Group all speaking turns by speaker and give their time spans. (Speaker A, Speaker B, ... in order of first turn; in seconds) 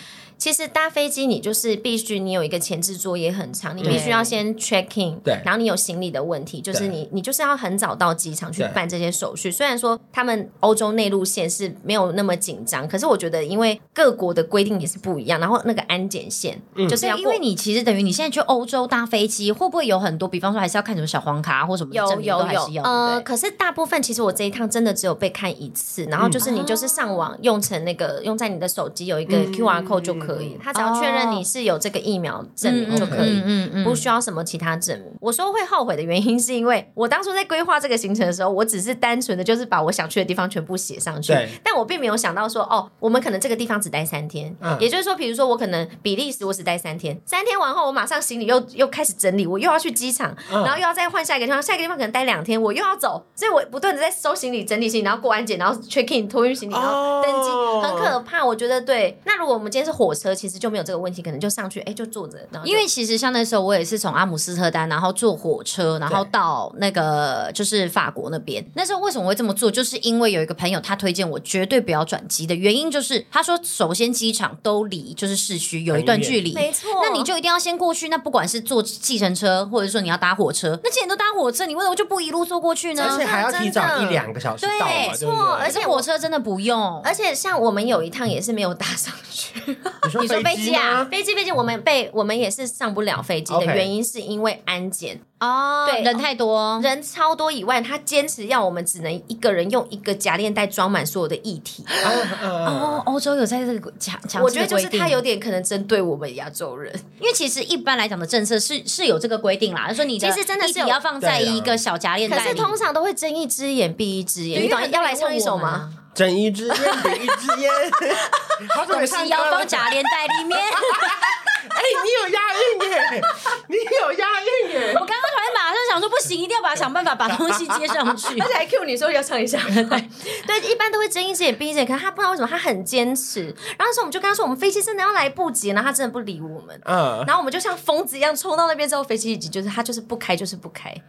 Speaker A: 0.4-17.4, 21.9-62.8, 76.5-77.3, 83.0-84.2, 84.8-86.0, 87.0-90.0, 91.1-95.2, 95.8-96.2, 96.8-101.9, 104.3-107.0, 110.2-111.0, 112.3-115.9, 128.3-141.0
Speaker B: 3.8-4.2, 16.7-17.0, 26.2-26.4, 29.3-30.6, 32.9-33.3, 41.3-41.5, 44.6-44.9, 50.5-50.8, 56.7-58.1, 75.9-76.4, 83.0-85.8, 90.0-91.1, 93.5-93.9, 102.0-103.0, 111.2-112.7, 116.1-125.1, 127.4-128.0, 136.8-137.3
Speaker C: 3.8-4.3, 16.9-23.2, 26.4-27.2, 30.7-31.4, 32.6-34.0, 62.6-83.2, 84.6-87.1, 90.2-91.1, 95.4-96.9, 101.9-105.2, 107.2-112.7, 114.5-116.0, 116.8-117.2, 118.7-121.3, 124.9-128.5, 129.7-130.0